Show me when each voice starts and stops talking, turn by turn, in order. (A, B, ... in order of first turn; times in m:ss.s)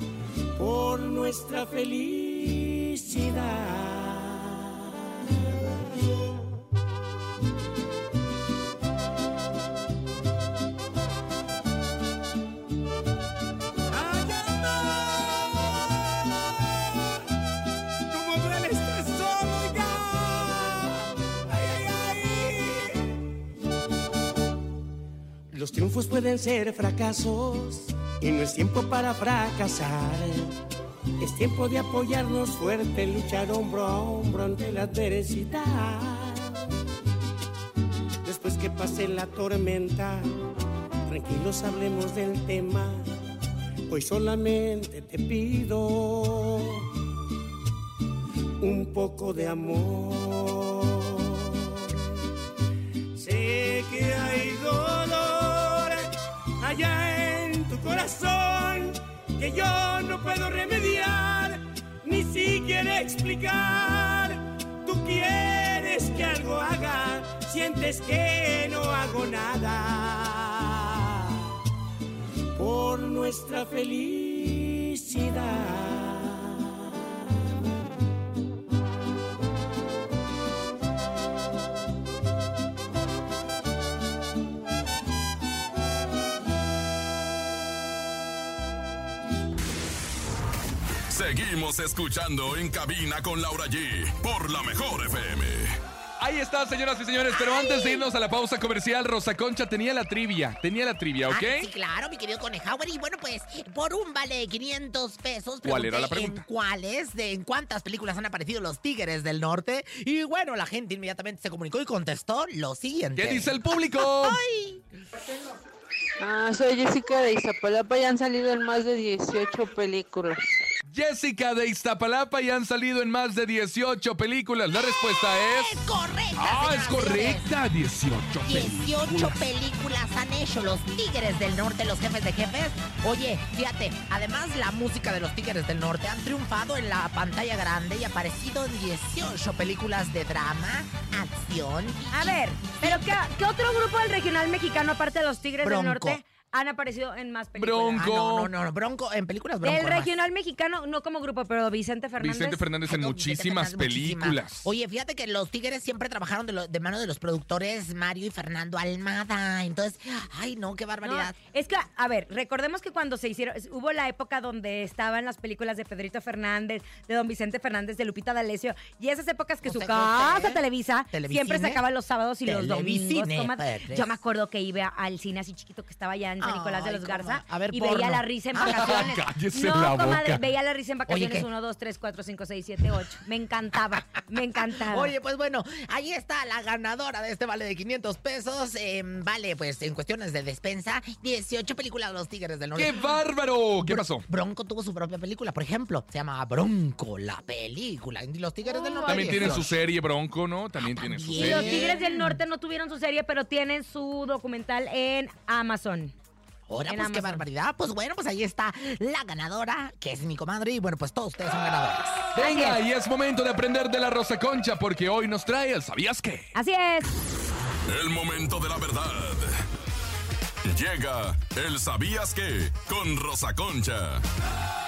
0:00.6-0:04.9 A
0:13.9-0:15.8 A
0:18.1-0:23.1 A
0:25.5-0:30.5 A
0:31.2-0:36.6 A
0:38.2-0:40.3 A
0:41.1-0:43.1 A
0:43.9-0:46.9 A
0:48.6-0:51.7 A
0:53.1-1:11.4 A
1:12.6-1:16.9 A
1:31.1-1:35.8 B
1:36.2-1:41.7 C
1:37.6-1:38.0 D
1:41.3-1:54.8 D
1:45.6-1:46.4 C
1:53.2-1:54.4 C
1:56.2-2:00.4 E
2:00.9-2:05.8 C
2:04.9-2:07.5 D
2:06.4-2:09.4 C
2:08.4-2:23.2 D
2:22.1-2:28.0 F
2:25.6-2:26.2 D
2:27.6-2:28.5 C
2:28.0-2:30.2 D
2:29.6-2:32.6 F
2:32.2-2:34.6 C
2:32.9-2:41.4 D
2:41.0-3:05.1 F
2:49.6-2:51.8 D
2:52.4-2:54.2 D
2:56.4-2:59.2 D
2:58.6-3:00.4 C
3:01.1-3:01.5 D
3:04.4-3:13.2 D
3:12.8-3:14.2 C
3:13.8-3:19.8 D
3:18.9-3:19.3 F
3:19.0-3:21.9 C
3:20.8-3:22.4 D
3:21.4-3:26.1 F
3:26.7-3:32.3 D
3:26.9-3:27.4 F
3:32.3-3:32.8 F
3:32.4-3:36.5 C
3:36.5-3:37.1 F
3:37.9-3:39.6 B
3:40.6-3:44.2 B